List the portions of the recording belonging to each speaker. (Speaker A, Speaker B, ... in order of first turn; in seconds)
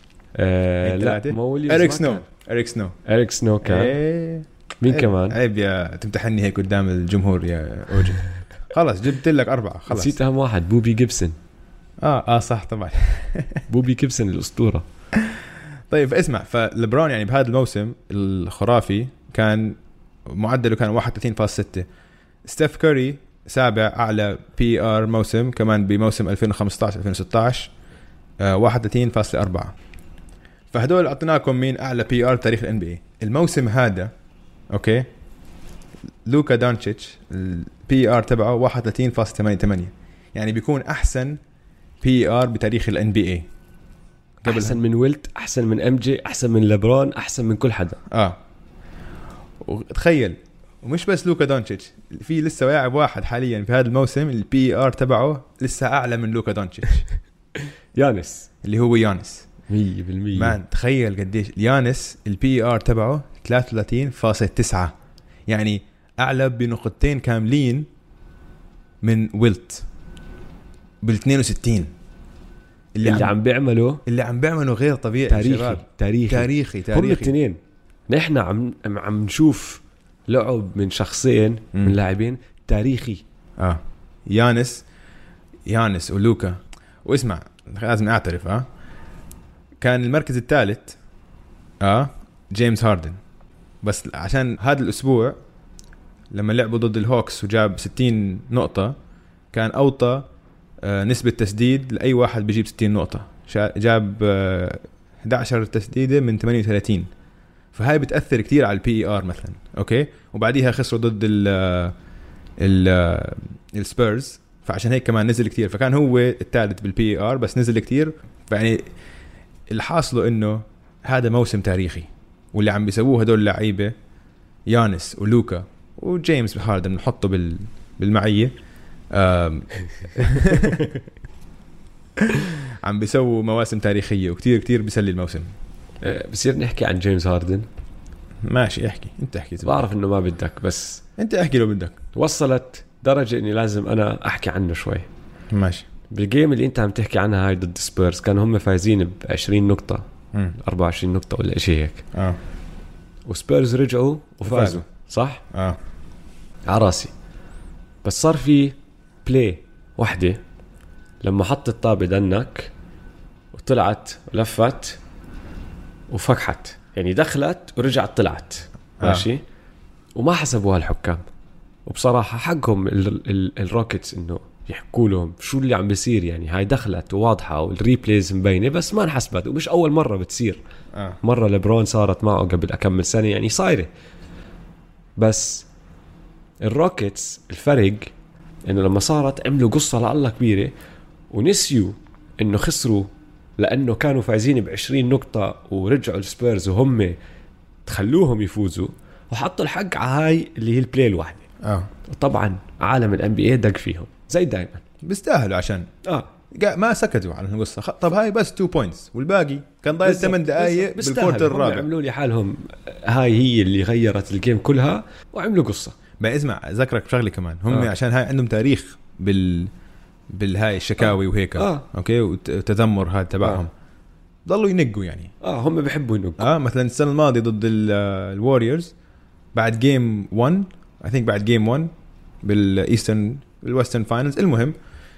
Speaker A: 0.3-2.2, 3.0-4.0, 4.8-5.4, 9.9-11.3, 13.7-14.8, 44.4-48.0, 57.9-58.5, 59.7-60.6, 73.0-74.0, 75.3-77.6, 78.1-83.2, 136.0-137.7, 139.6-141.0, 142.1-145.1, 146.1-150.0, 150.6-152.0, 153.2-155.4, 156.7-157.1, 158.0-160.4, 161.2-162.7, 163.5-165.0, 166.1-169.4, 170.2-171.2, 171.8-180.6, 181.2-183.9, 185.2-185.7, 186.6-188.1, 188.7-190.7, 191.3-197.2, 197.8-201.4, 202.0-204.8, 210.0-216.0, 221.0-221.8, 225.4-226.5
Speaker B: 0.8-2.9, 3.6-10.1, 12.0-13.6, 15.2-21.9, 22.4-27.7, 28.4-29.7, 30.7-34.1, 34.7-35.1, 36.2-41.4, 42.0-43.5, 44.4-44.8, 48.1-48.4, 49.6-57.0, 58.6-59.5, 60.3-64.9, 65.5-67.9, 69.0-69.8, 71.0-71.9, 73.0-73.3, 74.0-77.3, 83.6-84.8, 85.7-88.7, 89.8-91.0, 91.8-93.2, 93.8-95.4, 96.3-99.0, 99.5-100.3, 100.8-107.1, 107.7-111.9, 112.6-118.9, 119.7-123.9, 124.7-128.5, 129.1-130.9, 132.3-135.5, 138.4-139.8, 141.2-142.0, 145.5-145.8, 154.4-154.8, 155.5-155.8, 169.0-169.3, 201.6-201.9, 205.0-205.9, 206.5-211.9, 216.2-219.7, 220.3-223.7, 224.4-225.3, 226.4-228.9, 229.5-231.9, 232.4-234.7